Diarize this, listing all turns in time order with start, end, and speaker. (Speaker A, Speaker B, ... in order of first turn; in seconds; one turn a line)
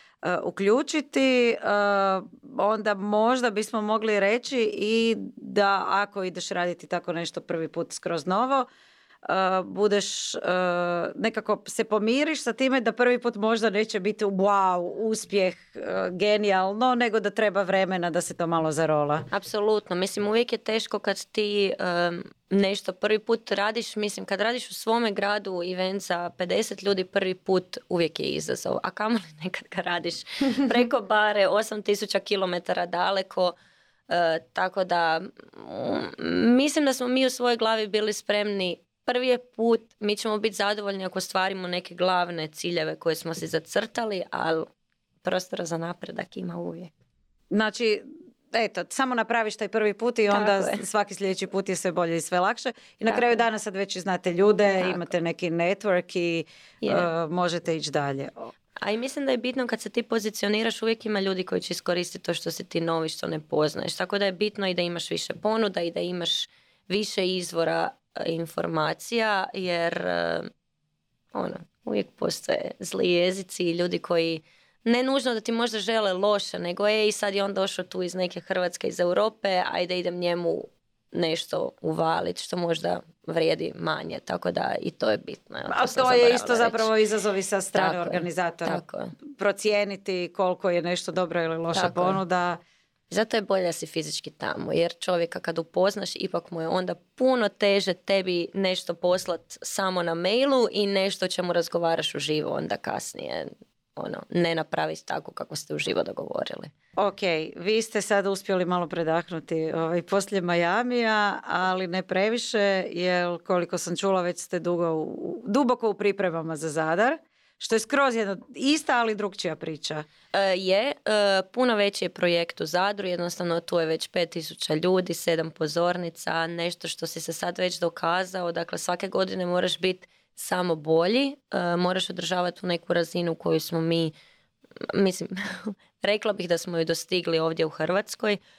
Speaker A: 0.2-8.7
Speaker A: 9.2-19.3
Speaker B: 19.3-33.5
Speaker B: 34.1-44.7
Speaker B: 45.2-46.9
Speaker A: 47.5-58.5
Speaker B: 50.3-50.8
Speaker B: 53.1-53.4
Speaker B: 56.8-57.1
Speaker B: 58.8-70.5
Speaker B: 71.3-86.9
Speaker A: 85.7-88.8
Speaker B: 87.8-89.1
Speaker A: 89.4-92.6
Speaker B: 91.7-92.2
Speaker B: 93.1-106.7
Speaker A: 107.0-120.1
Speaker B: 120.3-134.2
Speaker B: 134.9-138.4